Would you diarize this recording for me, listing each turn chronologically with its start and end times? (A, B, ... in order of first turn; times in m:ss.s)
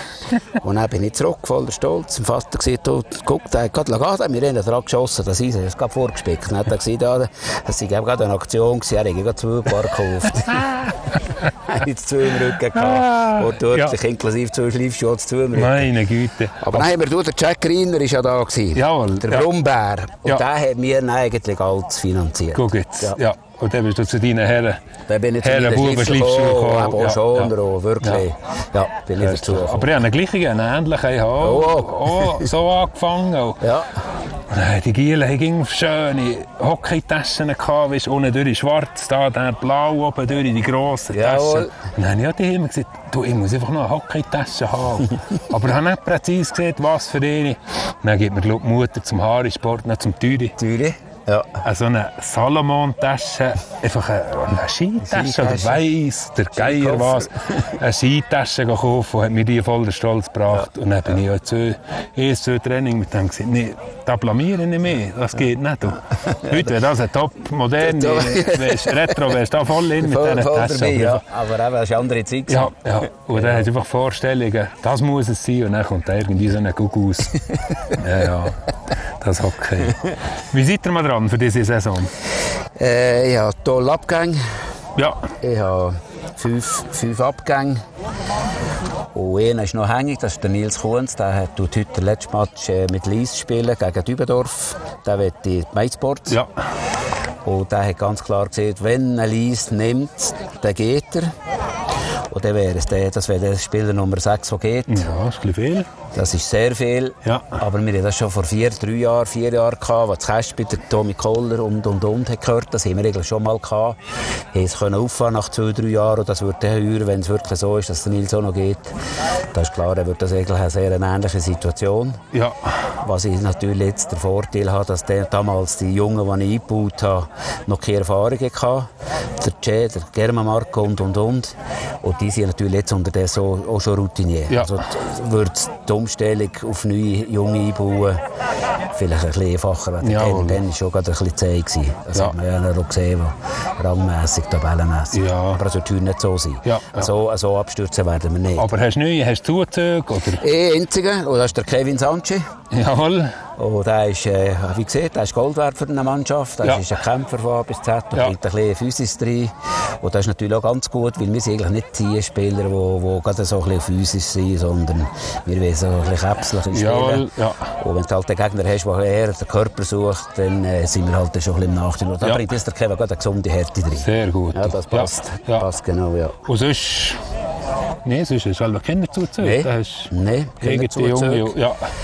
0:00.6-0:10.9 A
0:11.6-0:15.9 A
0:12.7-0:14.0 B
0:15.5-0:17.0 B
0:16.6-0:23.2 A
0:18.7-0:19.5 B
0:22.5-0:24.8 B
0:25.1-0:29.9 A
0:25.4-0:28.2 B
0:29.2-0:33.6 B
0:31.4-0:32.5 A
0:33.6-0:33.9 A
0:34.5-0:50.6 B
0:41.1-0:41.7 A
0:50.6-0:51.6 A
0:51.6-1:11.2 B
0:55.0-0:55.9 A
0:56.6-0:57.4 A
1:06.2-1:06.7 A
1:07.8-1:09.2 A
1:10.0-1:13.7 A
1:12.5-1:17.4 B
1:17.9-1:18.6 B
1:19.2-1:22.1 B
1:22.8-1:24.4 A
1:25.4-1:27.8 A
1:29.1-1:36.4 A
1:37.4-1:41.3 A
1:42.3-1:45.1 A
1:44.9-1:45.9 B
1:46.1-1:54.0 A
1:47.2-1:47.6 B
1:54.5-1:58.9 A
1:59.5-2:02.2 A
2:02.3-2:02.6 B
2:03.0-2:18.2 A
2:14.5-2:14.8 B
2:18.9-2:28.7 A
2:20.0-2:20.6 B
2:25.1-2:25.6 B
2:26.6-2:27.1 B
2:28.6-2:30.4 B
2:30.4-2:32.4 A
2:32.7-2:33.3 B
2:33.6-2:56.4 A
2:36.6-2:36.9 B
2:46.7-2:47.6 B
2:54.0-2:55.6 B
2:56.4-2:57.2 B
2:58.0-3:01.8 B
2:59.4-3:01.5 A